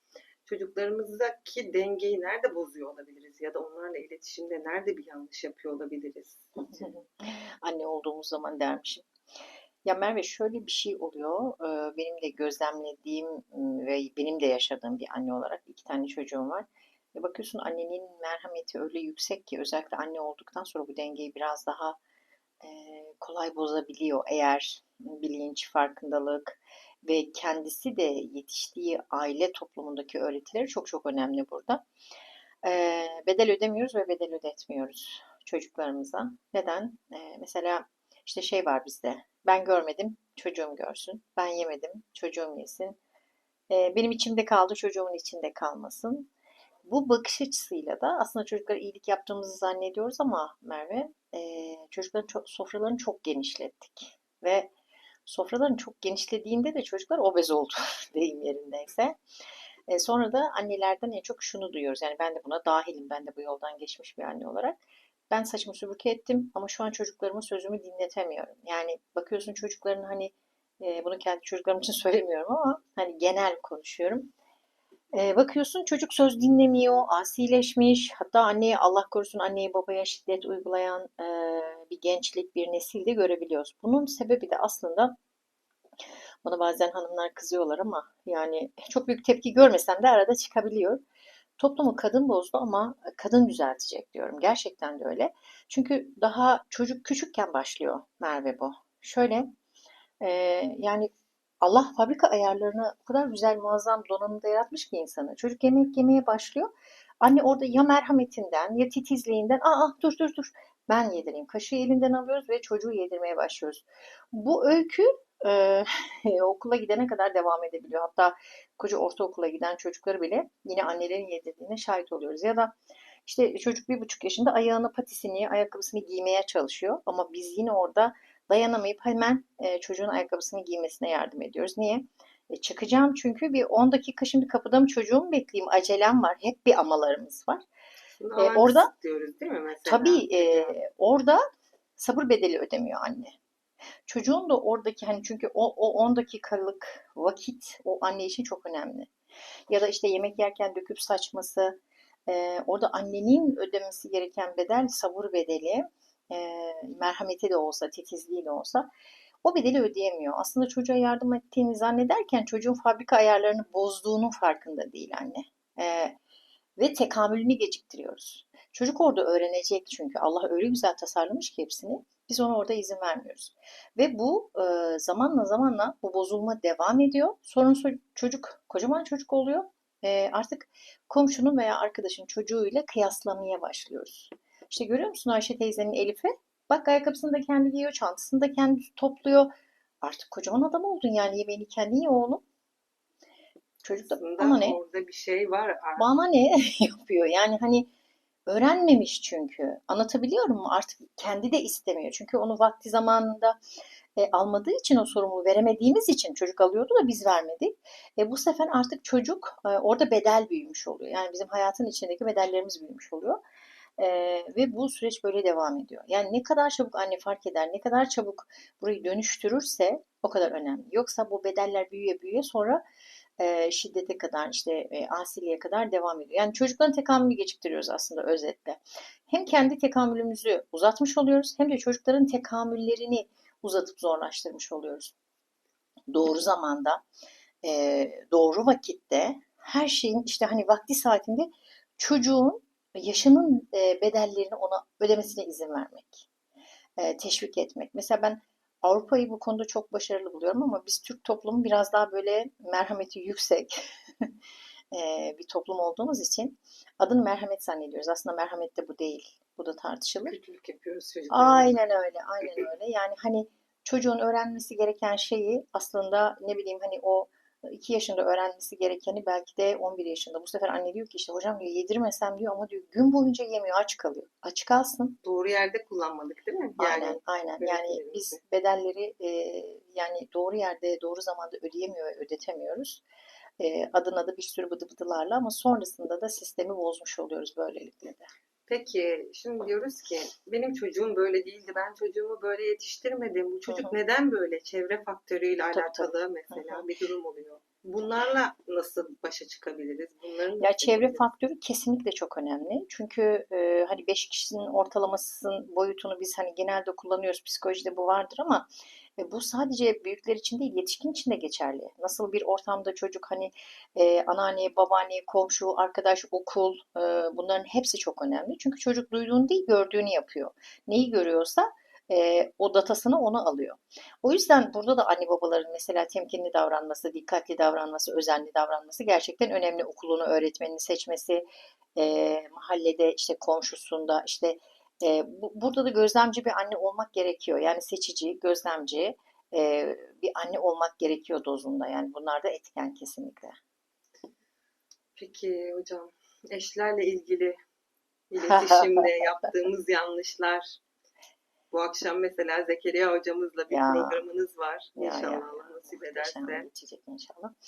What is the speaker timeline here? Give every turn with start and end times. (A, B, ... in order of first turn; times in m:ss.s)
0:00.4-0:06.9 A
0:06.6-0:09.1 B
0:09.8-0:22.0 B
0:22.6-0:31.8 B
0:32.6-0:43.0 B
0:43.7-0:46.3 B
0:46.8-0:54.7 B
0:55.2-0:59.2 B
0:59.9-1:04.8 B
1:05.3-1:14.3 B
1:15.1-1:25.1 B
1:26.4-1:31.0 B
1:31.6-1:39.5 B
1:40.2-1:41.1 B
1:41.6-2:02.7 B
2:03.2-2:17.6 B
2:18.2-2:20.8 A
2:18.4-2:18.9 B
2:19.8-2:21.4 B
2:22.0-2:23.3 B
2:24.1-2:29.1 B
2:29.7-2:38.9 B
2:39.4-2:46.2 B
2:46.8-3:09.5 B
3:10.0-3:12.4 B
3:13.8-3:14.8 B
3:13.9-3:16.1 A
3:16.0-3:17.9 B
3:18.5-3:23.6 B
3:24.2-3:33.4 B
3:34.0-3:42.8 B
3:43.4-3:55.1 B
3:56.1-3:57.0 B
3:57.6-4:06.3 B
4:07.0-4:14.3 B
4:14.9-4:20.4 B
4:20.2-4:21.8 A
4:21.3-4:35.2 B
4:35.2-4:38.4 A
4:36.8-4:43.0 B
4:43.6-4:48.3 B
4:48.7-5:01.2 A
4:53.7-4:53.9 B
4:55.7-4:56.8 B
5:00.6-5:08.7 B
5:09.2-5:43.5 B
5:45.2-5:47.6 A
5:48.3-5:50.8 A
5:48.4-5:49.1 B
5:51.7-5:56.7 A
5:53.7-5:54.2 B
5:55.0-5:57.5 B